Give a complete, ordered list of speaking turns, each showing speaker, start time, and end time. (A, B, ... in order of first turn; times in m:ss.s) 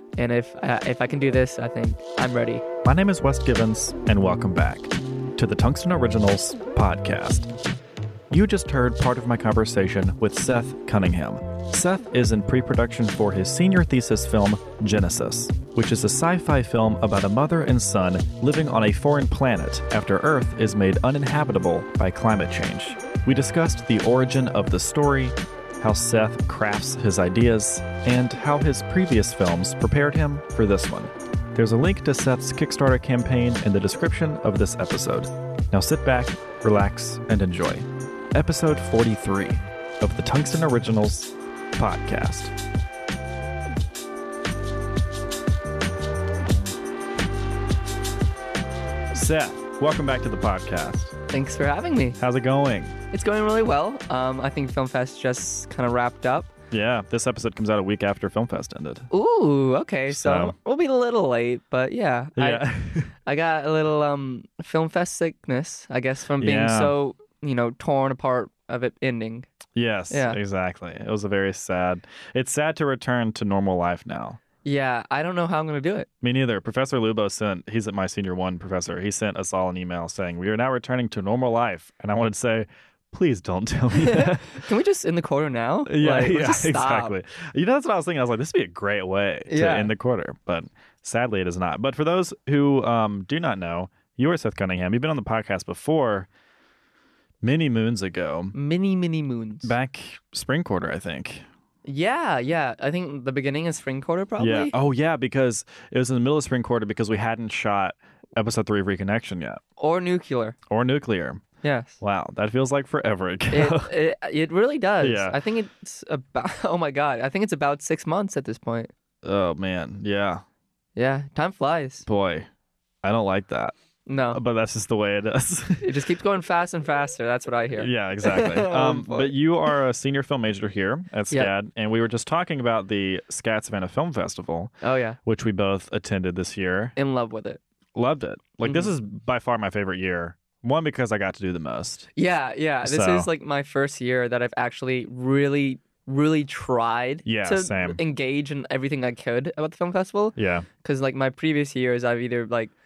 0:00.2-0:02.6 A
0:02.8-0:07.5 B
0:08.3-0:42.5 B
0:49.1-0:51.1 B
0:51.3-0:52.2 A
0:52.2-0:53.0 B
0:53.1-0:56.5 A
0:56.7-0:59.1 B
0:59.1-1:02.7 A
1:00.1-1:00.6 B
1:02.4-1:03.1 B
1:03.2-1:09.5 A
1:06.4-1:06.9 B
1:09.8-1:14.4 B
1:10.1-1:10.4 A
1:14.6-1:16.1 A
1:16.2-1:24.7 B
1:24.0-1:27.2 A
1:25.9-1:36.3 B
1:29.5-1:29.9 A
1:37.4-1:38.5 B
1:38.5-1:39.7 A
1:39.6-1:41.4 B
1:41.8-1:44.7 A
1:44.4-1:49.6 B
1:49.8-1:50.6 A
1:50.7-1:51.4 B
1:51.6-1:52.0 A
1:52.0-1:53.9 B
1:53.5-1:58.9 A
1:55.0-1:55.4 B
1:59.2-2:00.4 B
2:01.0-2:02.1 A
2:02.1-2:02.5 B
2:03.0-2:03.7 B
2:04.1-2:04.4 A
2:04.3-2:05.9 B
2:05.8-2:09.3 A
2:07.8-2:14.7 B
2:14.8-2:15.2 A
2:15.2-2:16.9 B
2:17.0-2:17.6 A
2:18.0-2:22.1 B
2:18.6-2:18.9 A
2:22.2-2:32.7 A
2:22.8-2:23.3 B
2:27.2-2:28.0 B
2:30.4-2:30.7 B